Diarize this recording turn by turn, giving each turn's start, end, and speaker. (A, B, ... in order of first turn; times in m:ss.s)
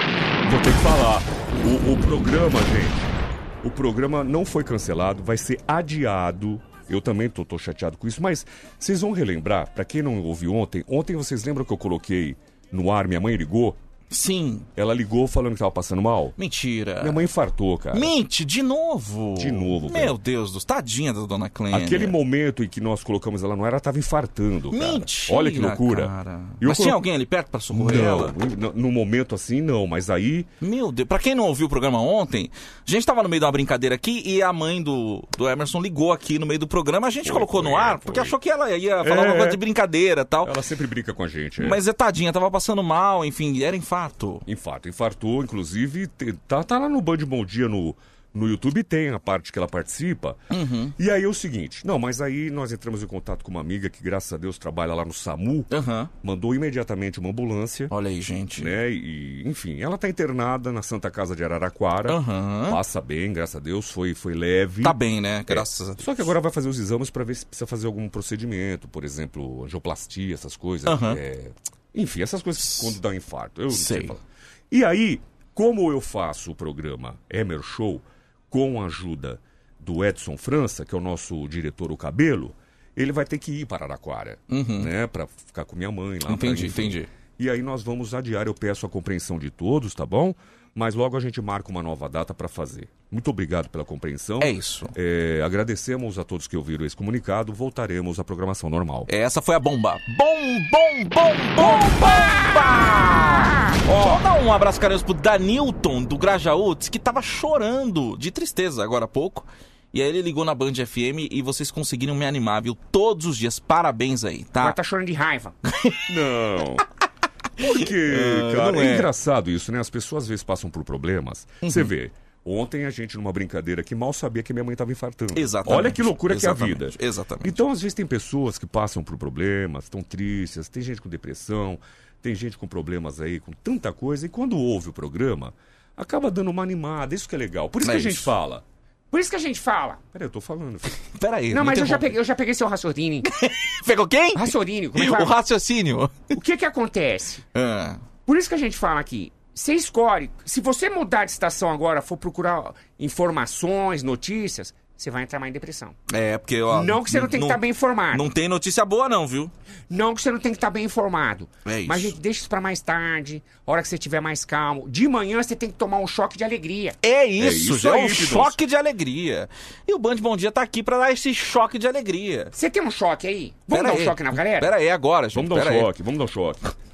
0:00.4-0:13.8 A
0:14.1-0:14.7 B
0:14.8-0:16.4 A
0:16.4-0:17.3 B
0:17.0-0:18.1 A
0:17.9-0:22.1 B
0:19.4-0:20.2 A
0:21.7-0:27.0 A
0:24.7-0:28.3 B
0:27.7-0:30.5 A
0:30.6-0:40.5 B
0:37.2-0:38.3 A
0:39.0-0:39.6 A
0:40.4-0:41.8 A
0:41.6-0:44.4 B
0:44.4-0:50.4 A
0:50.5-0:50.9 B
0:51.0-0:55.7 A
0:55.7-0:56.1 B
0:56.2-0:57.9 A
0:57.9-0:58.8 B
0:58.6-1:05.0 A
1:02.1-1:02.8 B
1:04.8-1:06.1 B
1:05.5-1:39.1 A
1:10.8-1:11.2 B
1:12.6-1:12.9 B
1:13.7-1:14.1 B
1:24.5-1:24.9 B
1:26.3-1:27.1 B
1:34.4-1:34.9 B
1:39.1-1:54.8 B
1:41.6-1:42.7 C
1:43.3-1:44.2 C
1:54.6-1:55.5 C
1:55.6-1:56.0 B
1:56.1-1:56.8 A
1:57.6-2:18.6 A
1:57.6-1:59.1 B
2:01.6-2:01.9 B
2:05.3-2:07.6 B
2:17.8-2:18.3 B
2:19.1-2:20.0 C
2:20.1-2:20.9 A
2:21.2-2:22.1 B
2:21.5-2:23.3 C
2:23.3-2:26.2 B
2:24.4-2:25.3 C
2:26.3-2:27.4 C
2:27.5-2:28.0 B
2:28.3-2:35.9 C
2:36.1-2:37.6 B
2:36.7-2:38.3 C
2:38.1-2:39.5 B
2:39.9-2:47.0 C
2:41.6-2:42.1 B
2:47.0-2:52.5 B
2:47.4-2:48.6 A
2:52.5-2:54.7 C
2:53.7-2:55.9 B
2:55.3-2:56.7 A